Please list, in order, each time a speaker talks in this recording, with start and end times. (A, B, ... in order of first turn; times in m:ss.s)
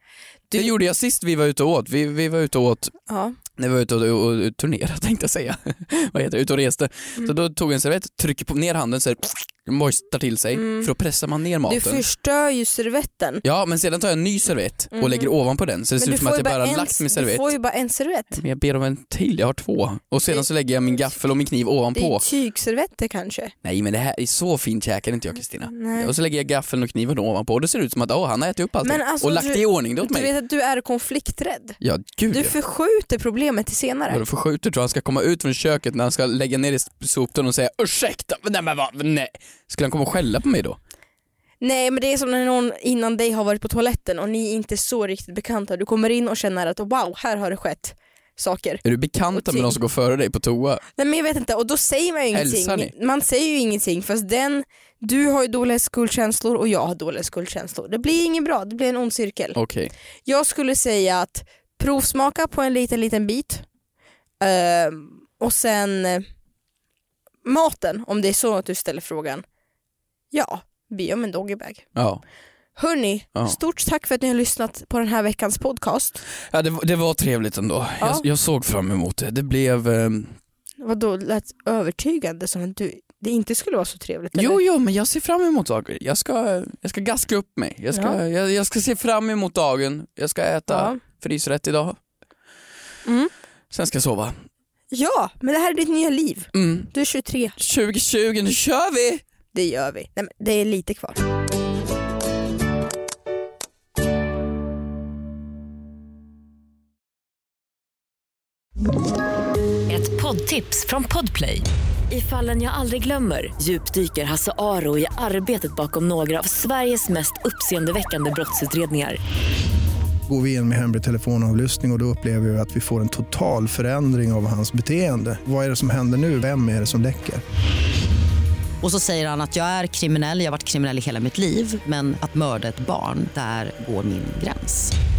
0:00.5-0:03.0 A
0:03.1-0:03.4 B
0:03.6-0:12.0 A
0:10.5-0:10.9 B
0:11.7-0:13.4 B
0:13.4-0:17.5 A
0:14.9-0:15.3 B
0:16.0-0:18.4 B
0:18.3-0:22.2 A
0:22.0-0:23.5 B
0:23.6-0:30.3 A
0:25.7-0:26.1 B
0:28.8-0:31.8 B
0:31.8-0:32.6 A
0:32.3-0:34.2 B
0:34.1-0:40.8 A
0:41.6-0:49.8 B
0:48.8-0:50.8 A
0:51.0-0:59.6 B
0:52.3-0:52.9 A
0:59.6-0:59.9 A
1:00.3-1:03.6 B
1:04.4-1:06.2 B
1:07.4-1:09.4 B
1:10.3-1:11.9 B
1:12.0-1:12.2 A
1:12.8-1:16.2 B
1:16.5-1:20.4 A
1:20.8-1:24.6 B
1:24.3-1:32.0 A
1:27.9-1:28.2 B
1:30.7-1:31.0 B
1:33.0-1:33.3 B
1:33.7-1:34.4 A
1:34.9-1:37.6 B
1:36.5-1:36.9 A
1:37.6-1:39.2 A
1:39.5-1:41.2 B
1:49.9-1:59.2 C
2:00.3-2:07.4 D
2:08.8-2:14.9 E